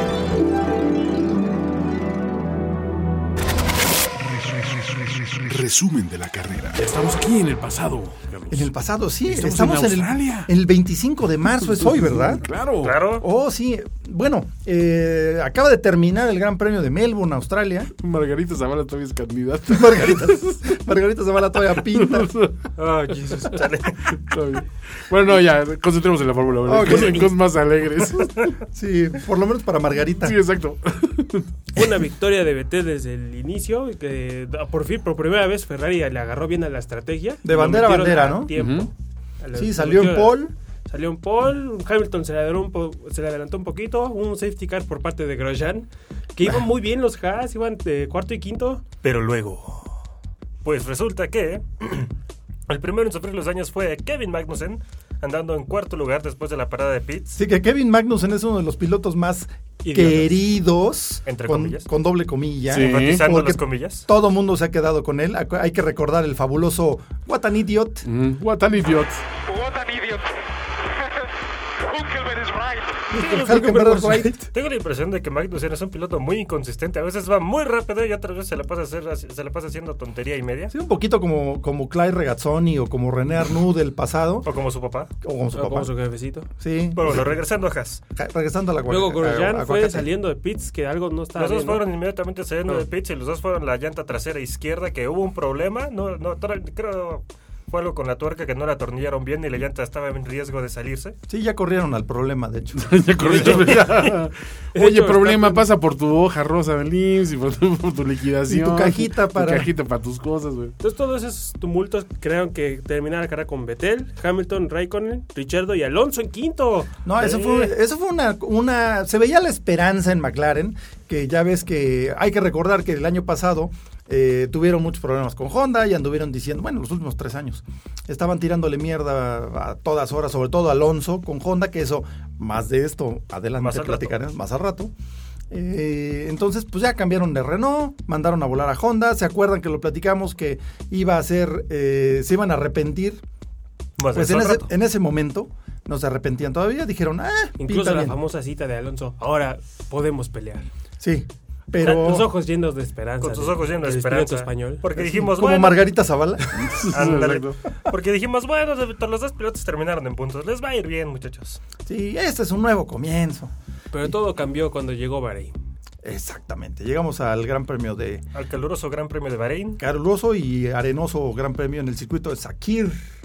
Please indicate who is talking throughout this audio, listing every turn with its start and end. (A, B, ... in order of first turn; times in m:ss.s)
0:04.4-0:08.7 A
0:05.8-0:06.6 B
0:08.5-0:12.4 C
0:09.2-0:10.5 A
0:11.8-0:13.0 A
0:12.8-0:13.2 D
0:13.2-0:17.9 C
0:18.0-0:20.7 A
0:19.7-0:22.3 C
0:21.9-0:22.5 A
0:22.8-0:24.2 D
0:24.1-0:28.6 A
0:26.6-0:27.3 C
0:28.7-0:30.4 C
0:30.2-0:31.5 A
0:31.7-0:48.8 E
0:37.4-0:38.5 C
0:38.5-0:38.9 A
0:39.5-0:40.5 C
0:49.0-0:49.9 D
0:50.6-0:52.1 D
0:52.7-0:57.4 D
0:57.4-1:08.0 C
0:59.9-1:00.2 D
1:01.2-1:01.9 D
1:02.7-1:03.2 A
1:02.8-1:04.1 D
1:08.0-1:09.2 A
1:09.6-1:10.2 B
1:11.9-1:12.9 B
1:13.1-1:20.7 D
1:13.1-1:14.5 C
1:20.7-1:24.5 C
1:24.4-1:25.1 D
1:25.2-1:25.9 C
1:25.5-1:26.5 E
1:26.6-1:27.3 C
1:26.9-1:28.0 D
1:28.1-1:30.1 C
1:28.9-1:31.8 E
1:31.4-1:41.2 D
1:41.3-1:43.8 C
1:42.8-1:50.8 A
1:43.2-1:44.2 E
1:44.7-1:45.6 E
1:48.4-1:49.7 C
1:50.8-1:56.9 E
1:57.0-2:14.9 C
1:57.2-1:57.7 D
2:13.6-2:14.1 D
2:15.5-2:23.2 C
2:24.0-2:24.7 D
2:24.1-2:28.2 C
2:27.6-2:30.7 E
2:31.0-2:32.3 C
2:31.8-2:34.8 E
2:31.8-2:32.2 D
2:33.2-2:35.8 D
2:34.9-2:36.8 C
2:36.5-2:37.6 A
2:36.7-2:41.6 D
2:41.8-2:43.5 C
2:43.9-2:45.6 E
2:46.0-2:48.2 C
2:48.3-2:49.8 D
2:49.8-2:53.0 C